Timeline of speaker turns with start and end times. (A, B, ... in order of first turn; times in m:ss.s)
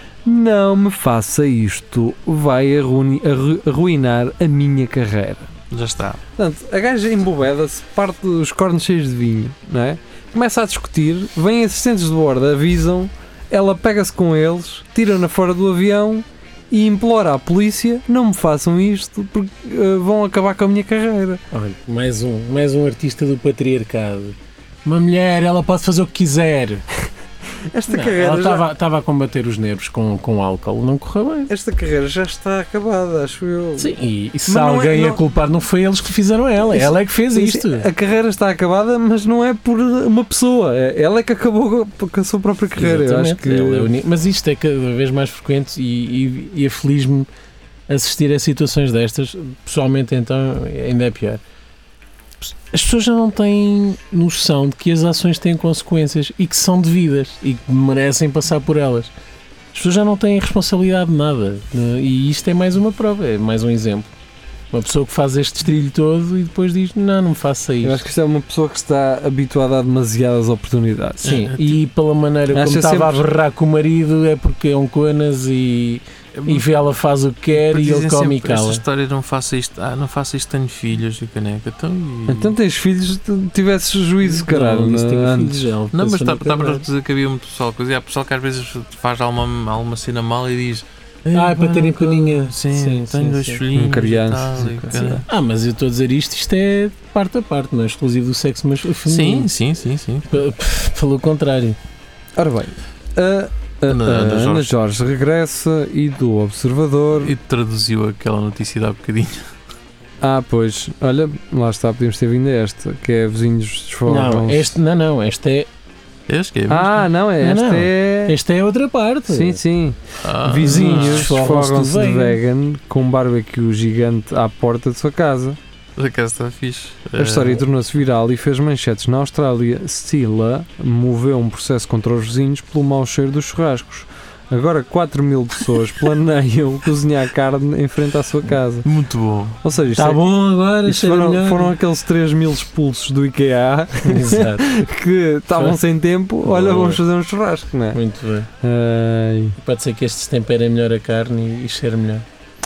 0:00.2-0:05.5 A
0:05.7-0:06.2 B
0:06.4-0:21.4 A
0:21.5-0:26.9 C
0:27.7-0:28.6 A
0:27.9-0:31.5 C
0:31.5-0:35.2 A
0:33.8-0:37.9 C
0:36.7-0:43.9 A
0:42.8-0:47.3 C
0:47.9-0:51.4 C
0:52.4-0:59.1 C
0:59.7-1:04.1 C
1:04.7-1:08.0 C
1:07.8-1:11.5 A
1:11.2-1:18.8 C
1:11.2-1:11.7 B
1:12.5-1:13.2 A
1:16.3-1:16.8 B
1:17.6-1:22.6 B
1:22.3-1:25.7 A
1:24.2-1:26.9 C
1:25.9-1:35.2 B
1:31.3-1:33.6 C
1:33.7-1:35.2 A
1:35.2-1:39.5 C
1:39.0-1:40.4 B
1:40.3-1:41.8 C
1:42.4-1:47.3 A
1:43.9-1:44.7 B
1:47.1-1:49.5 B
1:50.2-1:54.8 A
1:54.0-1:55.7 C
1:56.3-1:57.1 B
1:56.7-1:58.3 A
1:57.4-1:59.6 C
1:59.3-2:05.6 A
2:00.2-2:01.3 B
2:00.6-2:02.4 C
2:06.0-2:07.6 B
2:07.2-2:18.9 A
2:18.8-2:19.6 B
2:19.6-2:20.2 A
2:19.9-2:21.7 C
2:20.9-2:28.0 A
2:24.0-2:24.7 C
2:25.5-2:25.8 C
2:26.4-2:27.0 C
2:27.9-2:28.5 C
2:28.6-2:29.6 A
2:29.6-2:32.2 C